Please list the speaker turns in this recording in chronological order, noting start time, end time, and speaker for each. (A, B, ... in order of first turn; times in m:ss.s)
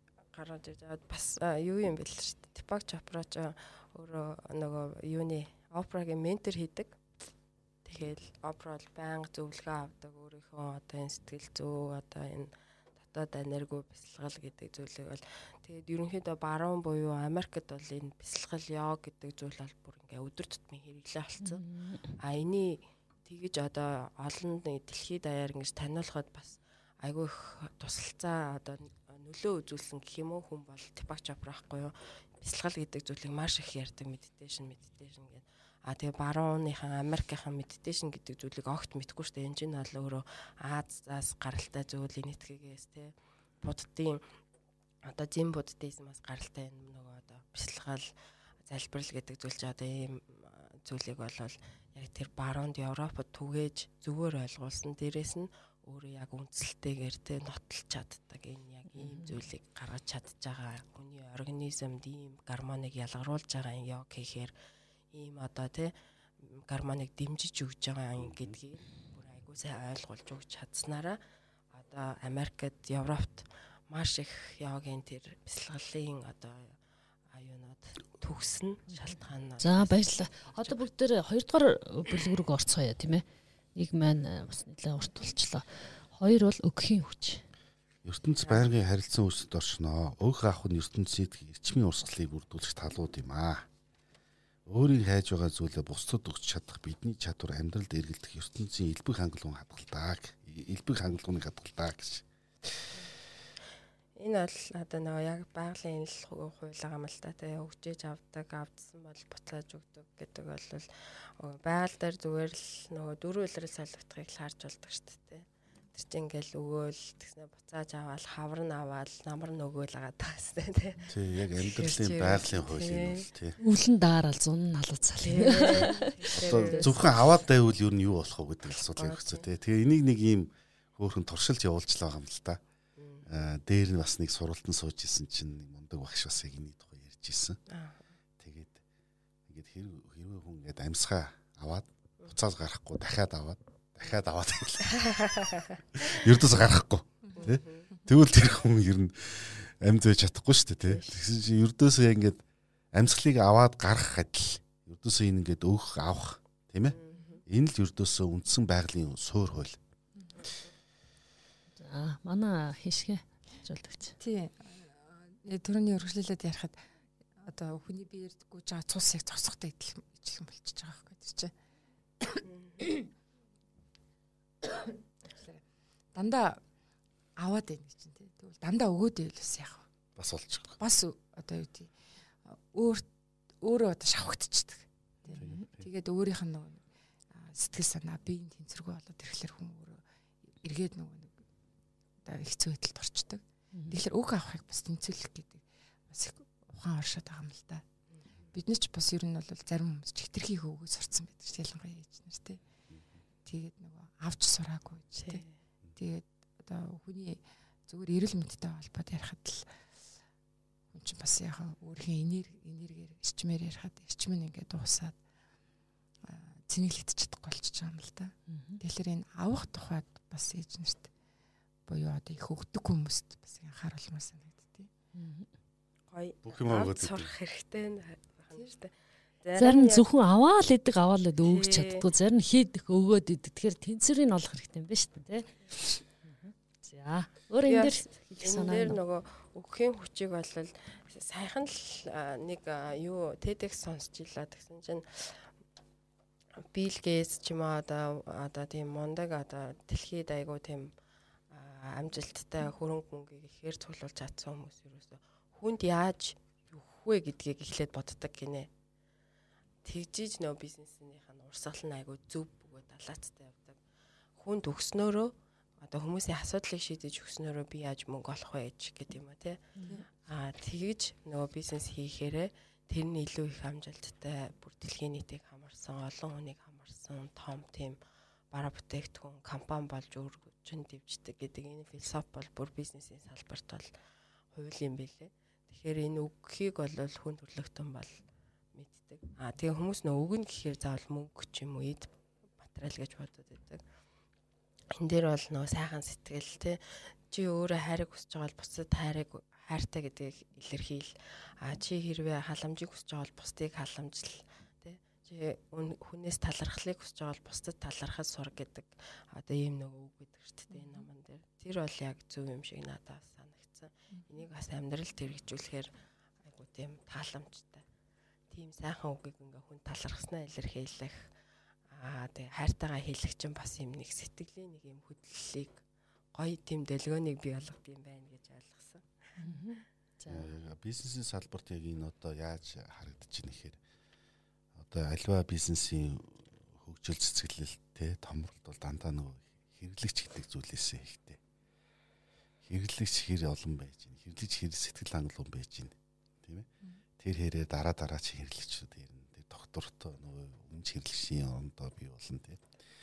0:00.3-0:07.0 A
0:07.8-0:21.6 A
0:08.0-0:08.3 B
0:21.4-0:22.2 C
0:22.2-0:43.1 A
0:43.6-0:44.2 A
0:45.0-0:48.1 A
0:48.6-1:04.6 A
0:58.9-0:59.4 C
1:05.1-1:11.2 A
1:08.2-1:08.6 B
1:11.7-1:16.8 A
1:17.3-1:20.8 A
1:19.6-1:27.4 C
1:28.0-1:33.7 B
1:28.4-1:28.7 A
1:34.7-1:42.2 B
1:44.2-2:03.3 A
2:01.1-2:03.6 B
2:03.6-2:06.8 C
2:05.2-2:07.2 A
2:06.3-2:12.6 B
2:08.7-2:09.5 A
2:13.0-2:13.3 A
2:13.3-2:17.6 B
2:17.7-2:18.1 A
2:18.4-2:18.8 B
2:19.5-2:32.4 B
2:24.9-2:26.4 A
2:27.3-2:27.6 D
2:27.4-2:27.9 A
2:30.9-2:31.2 A
2:32.9-2:39.8 B
2:36.9-2:37.4 A
2:41.8-2:44.2 C
2:44.2-2:46.8 D
2:47.4-2:51.5 D
2:52.2-2:53.1 D
2:54.6-2:55.6 D
2:56.1-2:56.6 D
2:57.4-2:59.9 D
3:00.2-3:00.8 B
3:00.8-3:01.9 D
3:02.6-3:03.1 D
3:03.6-3:06.8 D
3:05.3-3:05.7 C
3:05.4-3:05.9 B
3:07.4-3:10.0 D
3:10.6-3:11.3 D
3:12.2-3:17.8 D
3:13.7-3:14.0 C
3:18.5-3:22.6 D
3:23.5-3:25.4 D
3:25.2-3:25.5 A
3:26.0-3:29.6 D
3:30.9-3:35.2 D
3:36.2-3:41.1 D
3:38.5-3:38.8 C
3:41.9-3:44.9 D
3:45.1-3:45.5 C
3:46.1-3:50.1 A
3:46.4-3:47.3 B
3:49.6-3:59.0 C
3:51.5-3:52.0 A
3:57.7-4:05.5 A
4:06.6-4:10.9 A
4:11.5-4:18.7 A
4:19.8-4:23.8 A
4:24.4-4:38.0 A
4:38.5-4:43.9 A
4:44.5-4:53.8 A
4:55.0-5:17.8 A
5:18.5-5:21.3 A
5:21.9-5:25.8 A
5:26.3-5:29.1 A
5:29.4-5:30.5 C
5:30.3-5:33.8 B
5:34.8-5:41.4 B
5:42.7-5:52.6 B